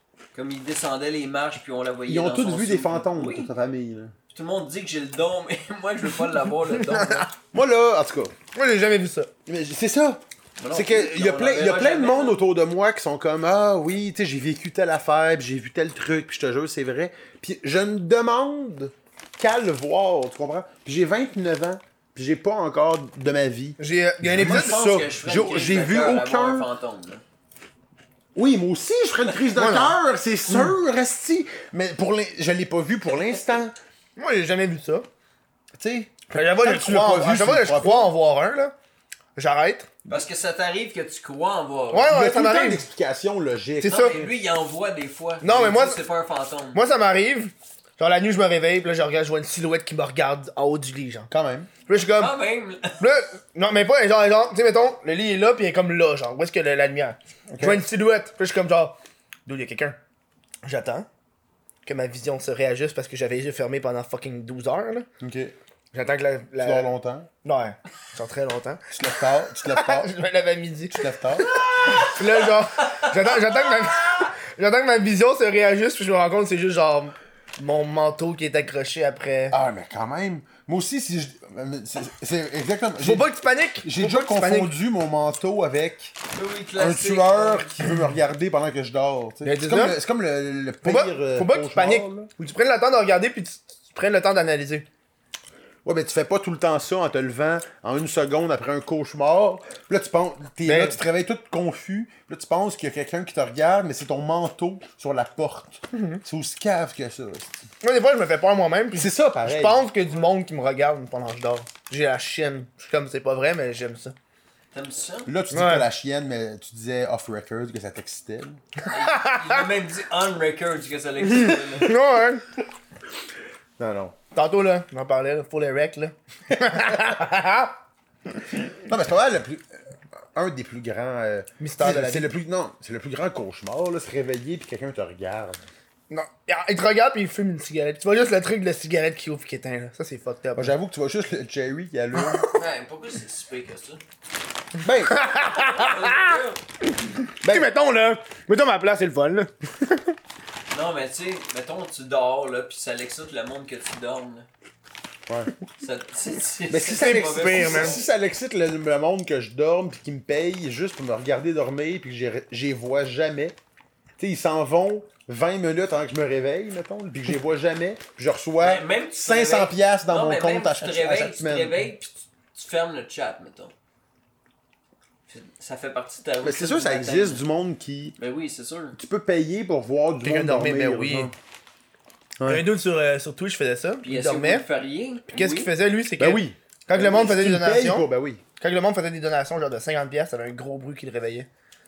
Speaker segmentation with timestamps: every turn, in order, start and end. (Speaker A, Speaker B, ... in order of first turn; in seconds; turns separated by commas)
Speaker A: 0.3-3.5, Speaker B: 2.1-4.1, Speaker A: 4.3-7.3, Speaker C: 6.8-7.3, Speaker B: 7.5-8.3, Speaker C: 8.6-9.3, Speaker B: 9.5-26.7, Speaker A: 10.6-12.4, Speaker C: 23.8-24.8, Speaker A: 24.4-27.2, Speaker B: 28.4-33.8, Speaker C: 29.6-30.7, Speaker C: 34.2-35.1, Speaker B: 35.8-38.1, Speaker C: 36.3-38.7, Speaker C: 39.4-39.9, Speaker A: 40.1-42.1, Speaker C: 41.9-42.8, Speaker B: 42.1-44.3, Speaker C: 43.8-44.2, Speaker A: 43.8-46.8, Speaker C: 45.4-46.0, Speaker C: 46.7-51.3, Speaker B: 51.3-51.7, Speaker C: 51.9-52.3, Speaker A: 52.2-53.0, Speaker C: 53.0-60.0, Speaker B: 57.5-57.8, Speaker C: 60.6-61.1, Speaker C: 61.9-65.1, Speaker B: 65.2-65.5, Speaker C: 65.9-66.9, Speaker B: 66.6-67.3, Speaker C: 67.4-68.9, Speaker B: 68.9-70.1, Speaker C: 69.7-79.6, Speaker B: 70.9-71.5, Speaker A: 73.7-74.0, Speaker B: 79.5-83.3, Speaker C: 83.0-84.7, Speaker B: 83.8-86.2, Speaker A: 86.3-87.8, Speaker B: 86.8-92.3, Speaker C: 89.4-90.0, Speaker C: 90.8-94.9, Speaker B: 95.8-107.5, Speaker C: 100.7-101.0, Speaker C: 105.9-106.2, Speaker C: 107.8-114.2, Speaker B: 109.0-109.8, Speaker A: 114.7-115.3, Speaker B: 115.3-118.6, Speaker C: 115.5-115.9, Speaker C: 118.8-119.6, Speaker A: 118.9-122.0, Speaker C: 121.3-122.4, Speaker B: 123.8-124.2, Speaker C: 124.3-127.8, Speaker B: 128.7-135.6, Speaker C: 131.6-132.3, Speaker C: 136.1-140.7, Speaker B: 140.6-142.4, Speaker C: 142.2-142.6, Speaker A: 142.5-144.0, Speaker B: 144.8-145.2, Speaker C: 145.0-146.4, Speaker A: 145.5-146.6, Speaker B: 147.4-147.7, Speaker C: 147.5-150.0, Speaker A: 150.7-154.5, Speaker B: 155.3-155.5, Speaker A: 155.8-158.1, Speaker B: 156.7-163.6, Speaker C: 157.0-158.0, Speaker B: 164.2-171.8, Speaker A: 168.6-173.7, Speaker A: 175.3-177.4, Speaker B: 176.4-178.2, Speaker A: 178.2-179.0, Speaker B: 179.0-181.3, Speaker C: 180.2-181.3, Speaker B: 182.4-182.7, Speaker C: 182.5-184.7, Speaker A: 184.0-185.7, Speaker C: 185.3-191.5, Speaker B: 186.2-188.4